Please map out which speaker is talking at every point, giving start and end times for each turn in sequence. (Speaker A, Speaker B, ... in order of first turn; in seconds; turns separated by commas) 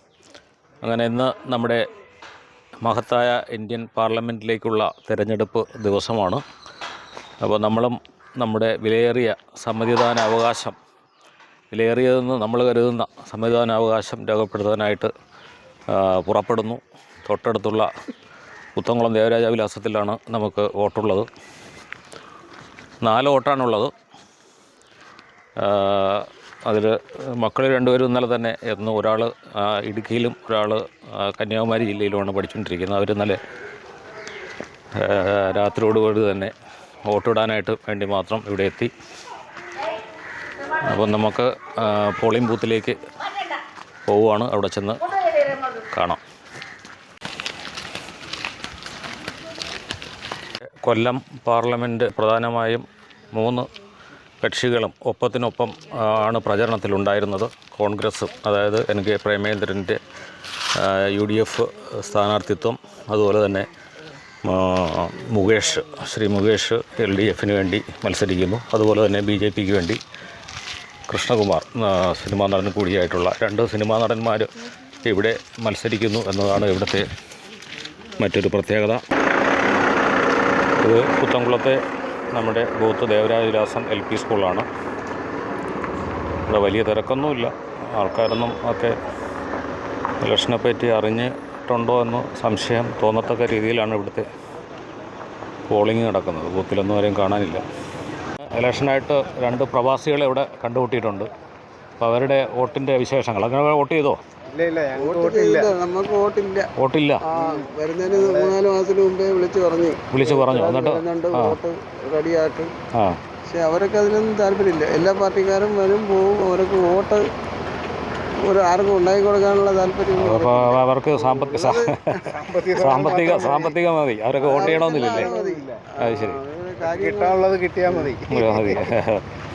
Speaker A: 0.8-1.8, Speaker A: 2.8-6.4, Speaker A: 7.4-10.8, Speaker A: 11.7-15.1, Speaker A: 15.9-17.9, Speaker A: 18.8-21.3, Speaker A: 23.0-23.9, Speaker A: 25.6-33.4, Speaker A: 35.0-36.5, Speaker A: 37.0-38.9, Speaker A: 40.9-43.0, Speaker A: 44.1-46.2, Speaker A: 50.8-53.7, Speaker A: 54.4-60.0, Speaker A: 60.8-63.7, Speaker A: 64.4-70.0, Speaker A: 71.1-74.5, Speaker A: 75.0-77.1, Speaker A: 78.2-79.0, Speaker A: 80.8-81.8, Speaker A: 82.3-84.7, Speaker A: 86.5-89.0, Speaker A: 90.2-94.3, Speaker A: 95.7-97.6, Speaker A: 98.5-101.3, Speaker A: 102.0-104.2, Speaker B: 104.5-105.7, Speaker C: 104.9-106.7, Speaker A: 106.8-107.2, Speaker C: 107.3-112.7, Speaker B: 107.3-108.5, Speaker A: 110.1-111.5, Speaker A: 112.9-113.2, Speaker C: 113.5-117.3, Speaker C: 118.4-122.4, Speaker A: 120.2-125.3, Speaker B: 122.3-123.7, Speaker C: 123.1-123.7, Speaker B: 124.3-125.8, Speaker C: 124.5-127.9, Speaker A: 126.0-126.4, Speaker B: 126.9-128.9, Speaker A: 128.3-129.2